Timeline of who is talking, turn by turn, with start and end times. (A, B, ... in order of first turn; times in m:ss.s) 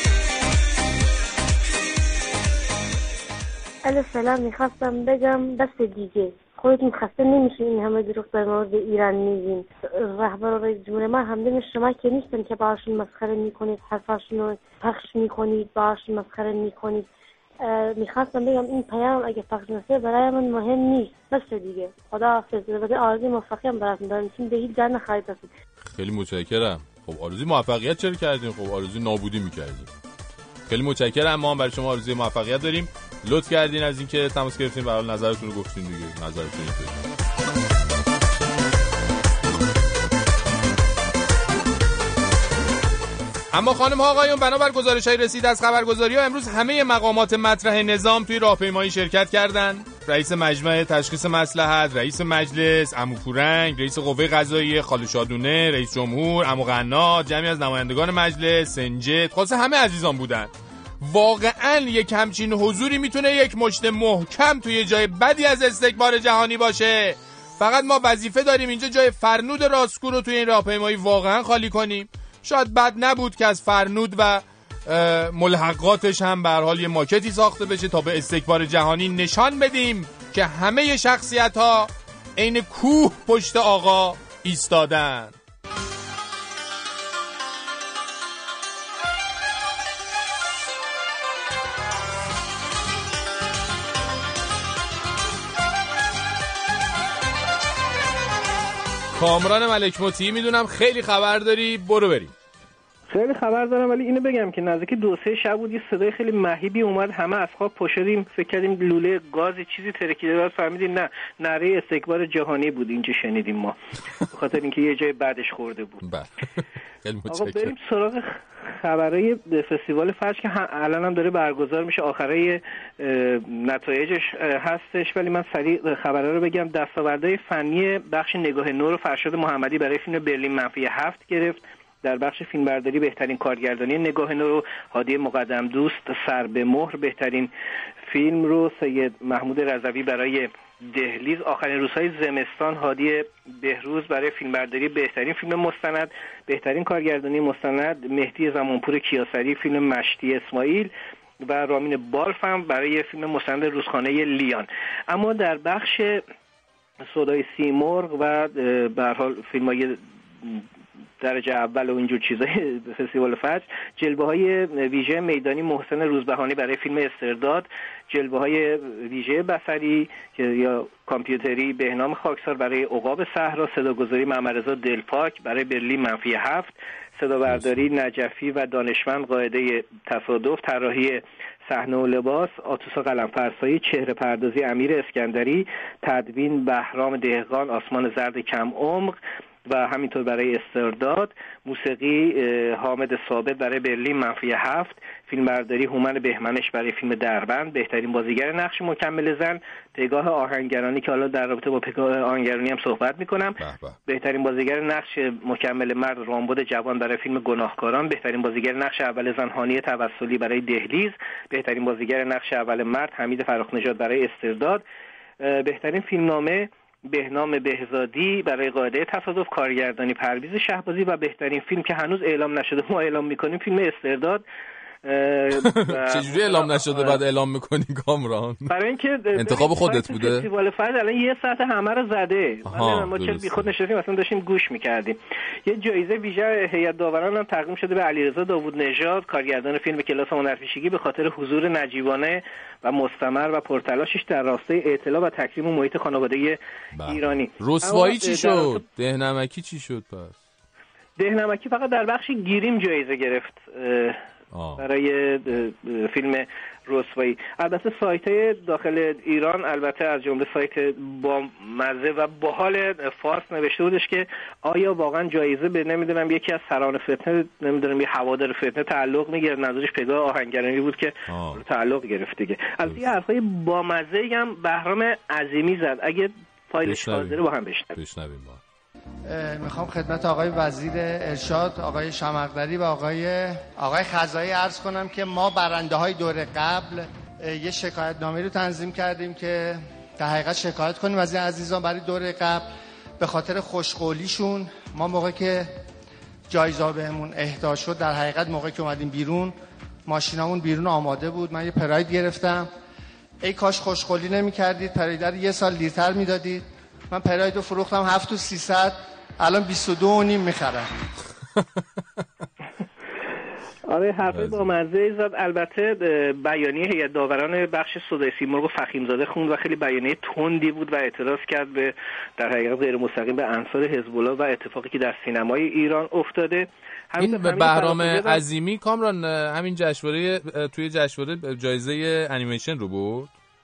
0:03.8-0:17.1 A
0:17.6-0:25.5 A
0:25.9-0:29.9 B
0:30.7-0:37.0 B
0:43.5-1:25.4 B
1:39.2-1:42.3 B
1:43.1-1:53.8 C
1:54.3-1:56.0 C
1:56.0-1:57.8 B
1:57.3-2:17.5 C
2:18.1-2:30.9 C
2:31.4-2:36.2 C
2:37.1-2:40.6 C
2:41.2-3:23.6 C
2:57.5-2:57.8 B
3:23.6-3:24.0 B
3:24.1-3:34.8 C
3:35.4-3:44.4 C
3:45.1-3:47.2 C
3:45.7-3:48.7 B
3:48.7-4:08.8 C
3:49.4-3:50.5 B
3:52.7-3:53.7 B
4:06.9-4:10.4 B
4:11.2-4:14.2 C
4:14.5-4:14.8 B
4:14.8-4:37.9 C
4:31.3-4:31.6 B
4:32.8-4:33.1 B
4:36.8-4:37.4 B
4:38.0-4:38.6 B
4:39.3-4:52.7 D
4:53.2-4:55.7 D
4:56.5-4:59.6 D
5:00.1-5:02.7 D
5:03.4-5:10.9 D
5:13.9-5:28.4 C
5:14.3-5:14.7 B
5:27.2-5:33.3 B